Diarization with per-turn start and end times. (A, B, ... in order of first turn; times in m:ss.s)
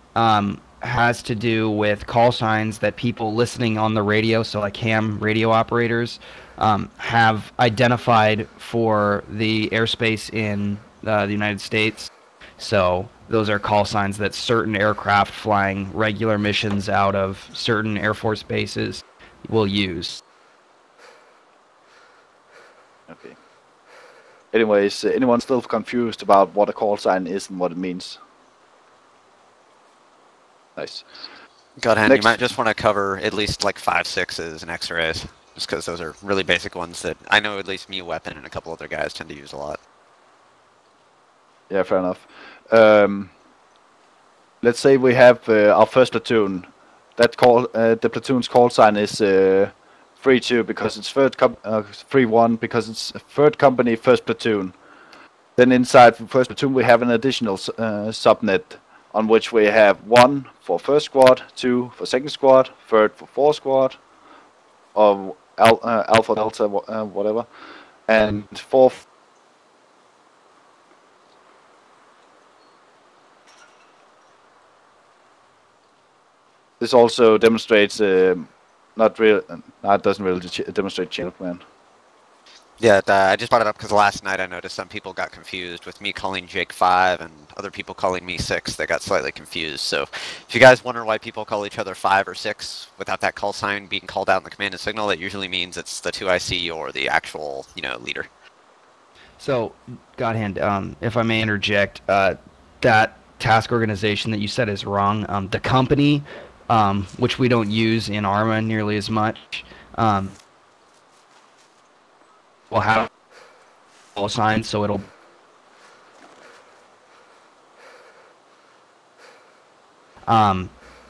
0:00.1-0:20.2 A
0:23.1-0:23.4 B
0:24.5-0:28.2 B
0:30.8-0:31.0 B
0:31.8-0:39.8 C
0:32.0-0:32.4 B
0:41.7-0:43.3 B
0:44.6-0:54.7 B
0:55.6-1:04.0 B
1:04.9-1:07.5 B
1:08.1-1:09.0 B
1:16.8-1:21.6 B
1:22.8-1:38.3 C
1:39.4-1:50.4 A
1:52.7-1:53.1 A
1:54.1-1:55.0 A
2:00.3-2:00.7 A